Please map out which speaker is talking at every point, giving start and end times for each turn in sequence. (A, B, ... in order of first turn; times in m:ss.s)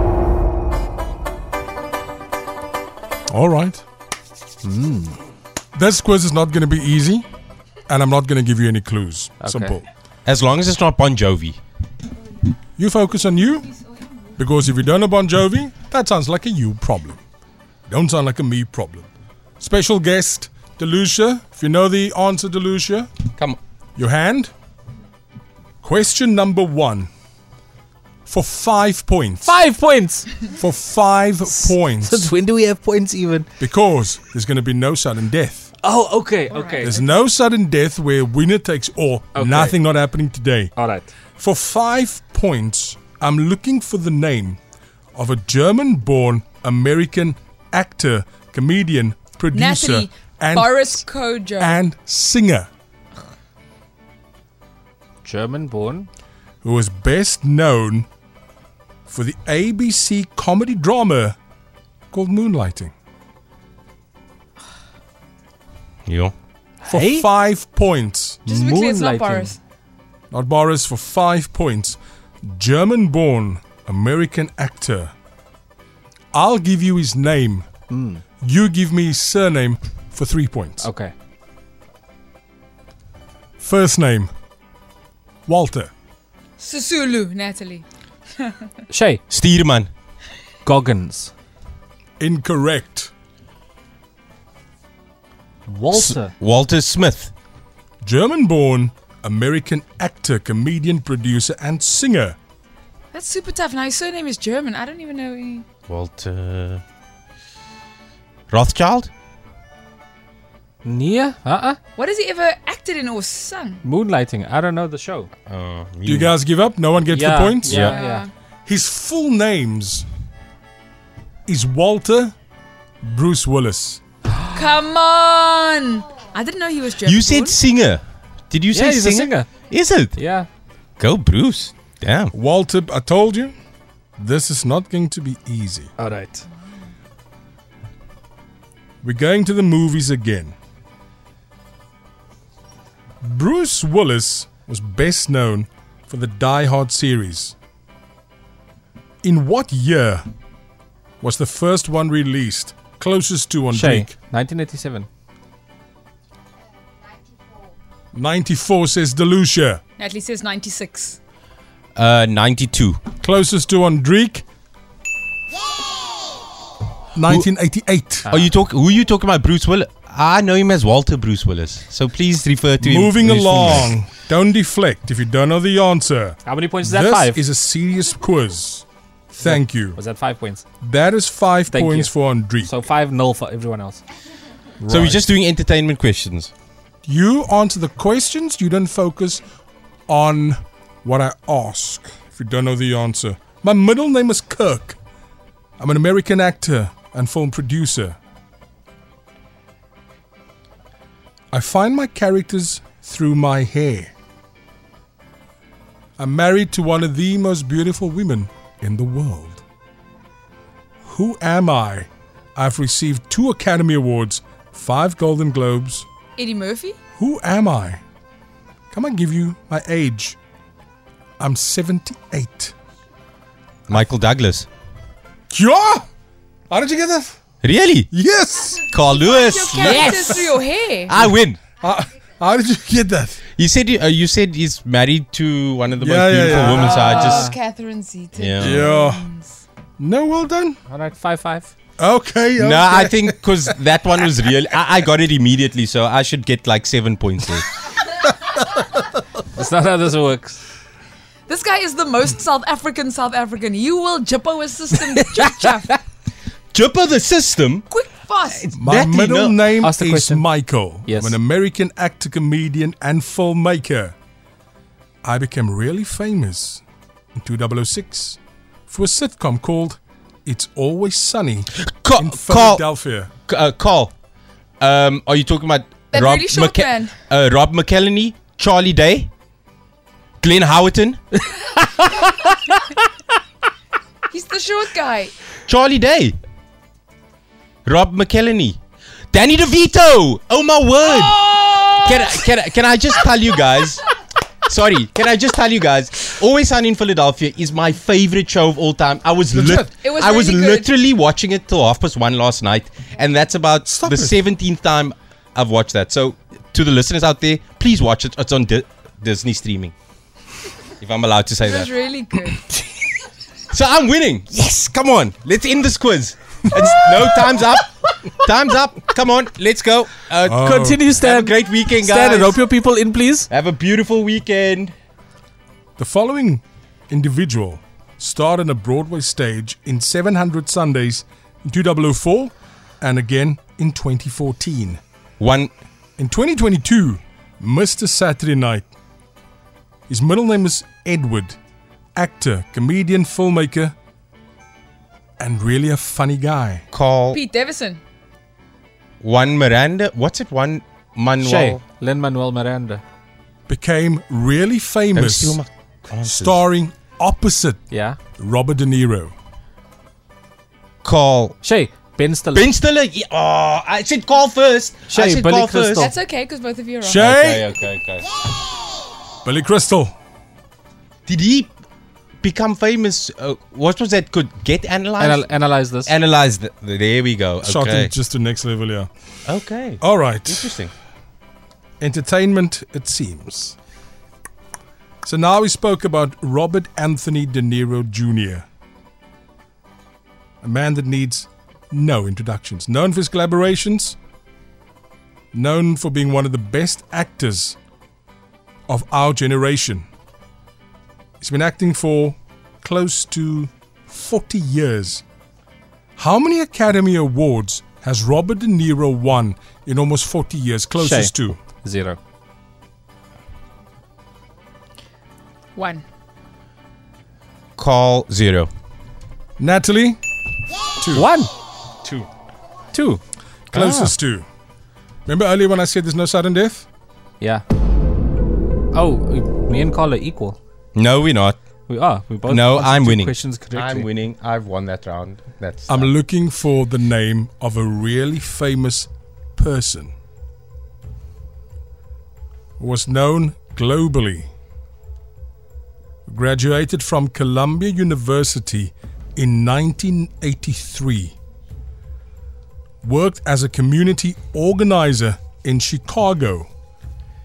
0:03.3-0:03.8 A
0:04.6-0:05.2 B
0:05.8-0:07.2 A
0:07.9-0:09.8 A
0:09.4-0:09.8 B
0:10.3-0:11.6 C
0:12.8-0:13.7 A
0:14.4-0:17.2 A
0:17.9-0:19.1 A
0:19.6-0:23.1 A
0:24.0-0:24.5 A
0:25.8-0:27.1 A
0:28.3-0:29.6 A
0:29.4-0:30.4 B
0:30.6-0:32.3 A
0:31.5-0:33.5 B
0:33.6-0:35.7 A
0:35.8-0:37.0 B
0:36.5-0:37.0 D
0:36.8-0:40.7 A
0:39.3-0:39.8 B
0:40.8-0:41.1 B
0:41.4-0:44.6 A
0:45.2-0:51.1 A
0:49.5-0:51.8 D
0:51.6-0:52.7 A
0:55.2-0:56.1 B
0:56.6-0:58.1 A
0:59.1-1:01.4 A
1:02.1-1:02.9 A
1:06.1-1:06.3 C
1:06.8-1:07.3 B
1:06.9-1:08.5 A
1:08.5-1:09.5 B
1:08.5-1:09.6 D
1:10.3-1:15.1 A
1:16.3-1:17.7 A
1:17.9-1:18.2 B
1:18.4-1:20.9 A
1:20.8-1:21.1 B
1:23.6-1:24.3 A
1:25.5-1:25.9 A
1:26.6-1:27.8 D
1:28.4-1:28.7 D
1:28.9-1:29.2 B
1:29.3-1:29.9 C
1:30.6-1:31.3 B
1:32.2-1:33.1 A
1:35.7-1:36.3 B
1:35.9-1:37.3 C
1:38.0-1:42.4 A
1:43.1-1:45.7 D
1:45.9-1:46.8 C
1:48.5-1:49.1 C
1:50.8-1:51.8 B
1:52.0-1:53.8 D
1:53.8-1:55.3 B
1:55.5-1:56.3 C
1:56.1-1:57.9 A
1:57.1-1:58.3 B
1:57.7-1:58.0 C
1:57.8-1:58.3 D
1:58.7-2:00.1 A
2:01.5-2:02.4 A
2:03.0-2:04.0 A
2:04.5-2:07.6 D
2:07.0-2:10.2 C
2:08.7-2:09.5 B
2:10.2-2:10.5 B
2:11.0-2:12.3 C
2:12.3-2:13.6 A
2:14.2-2:15.9 A
2:16.0-2:16.5 B
2:19.0-2:20.6 A
2:23.2-2:27.6 A
2:29.2-2:30.2 A
2:31.2-2:34.1 A
2:33.7-2:35.1 B
2:38.1-2:39.8 A
2:40.0-2:41.2 D
2:42.0-2:43.0 C
2:43.2-2:44.4 A
2:47.2-2:48.3 A
2:48.3-2:48.5 B
2:48.3-2:53.9 C
2:52.8-3:00.0 A
2:56.4-2:57.4 B
2:59.4-3:00.6 B
3:00.8-3:02.7 A
3:01.7-3:04.0 B
3:04.8-3:05.2 A
3:04.9-3:06.5 C
3:07.0-3:09.4 A
3:10.1-3:15.0 A
3:15.8-3:18.2 A
3:21.5-3:24.1 A
3:26.2-3:29.6 A
3:31.0-3:36.1 A
3:36.4-3:37.0 D
3:37.2-3:38.0 A
3:38.9-3:40.4 A
3:41.4-3:42.7 A
3:43.9-3:44.7 C
3:45.5-3:46.1 A
3:46.7-3:47.4 A
3:47.6-3:48.1 C
3:48.1-3:49.0 A
3:48.9-3:50.4 C
3:49.0-3:51.2 D
3:49.8-3:50.6 A
3:51.1-3:51.6 C
3:51.3-3:53.4 A
3:53.6-3:57.5 C
3:56.0-3:57.2 A
3:56.5-3:59.6 D
3:57.1-3:57.5 B
3:58.4-3:58.8 C
3:58.6-3:59.3 A
4:00.0-4:00.8 A
4:00.9-4:01.7 B
4:02.0-4:03.6 A
4:02.6-4:07.7 C
4:09.6-4:10.6 B
4:11.5-4:15.9 D
4:16.7-4:17.8 C
4:17.9-4:18.7 D
4:18.5-4:19.6 C
4:18.7-4:24.2 A
4:19.8-4:20.5 B
4:21.1-4:21.4 B
4:25.2-4:26.8 A
4:27.4-4:33.3 A
4:31.8-4:32.8 C
4:33.5-4:34.1 C
4:34.8-4:39.3 C
4:36.1-4:37.2 D
4:40.4-4:41.2 C
4:44.3-4:45.4 D
4:45.7-4:46.4 C
4:47.9-4:48.8 C
4:49.3-4:54.0 C
4:54.7-5:09.9 C
4:59.5-4:59.9 A
5:00.0-5:00.9 D
5:03.8-5:04.4 A
5:11.0-5:11.9 C
5:11.6-5:12.6 D
5:13.7-5:22.6 C
5:20.4-5:21.2 A
5:20.7-5:23.5 B
5:23.5-5:24.9 C
5:26.0-5:35.0 A
5:35.4-5:35.7 C
5:36.2-5:38.9 A
5:40.1-5:41.6 A
5:42.2-5:44.0 A
5:45.4-5:46.9 A
5:46.9-5:47.4 C
5:47.3-5:48.0 D
5:49.2-5:51.8 C
5:51.4-5:53.0 B
5:53.7-5:55.6 A
5:55.1-5:56.6 C
5:56.2-5:57.8 A
5:57.9-5:58.2 B
5:58.4-5:59.3 A
6:01.0-6:01.6 C
6:01.6-6:02.7 B
6:02.5-6:06.1 C
6:05.1-6:06.1 B
6:06.0-6:07.3 D
6:07.0-6:07.7 A
6:07.2-6:08.3 C
6:09.4-6:10.1 A
6:11.3-6:11.7 C
6:12.4-6:15.5 C
6:15.2-6:16.1 B
6:16.1-6:18.1 C
6:17.6-6:19.1 A
6:19.5-6:20.9 C
6:20.0-6:20.8 A
6:22.0-6:23.8 A
6:25.2-6:28.7 A
6:30.6-6:34.2 A
6:35.5-6:37.8 A
6:38.9-6:40.1 A
6:41.4-6:45.2 A
6:46.2-6:51.6 A
6:51.0-6:52.2 B
6:55.8-6:56.0 D
6:57.8-6:58.7 C
6:59.6-7:00.2 A
7:01.0-7:01.3 A
7:01.1-7:01.5 B
7:02.9-7:03.2 B
7:03.7-7:04.5 A
7:03.7-7:04.1 C
7:05.3-7:06.9 A
7:08.9-7:10.6 B
7:11.0-7:11.6 C
7:11.9-7:14.1 B
7:12.5-7:16.1 C
7:15.9-7:20.1 A
7:22.8-7:24.5 A
7:26.3-7:31.4 A
7:33.0-7:36.7 A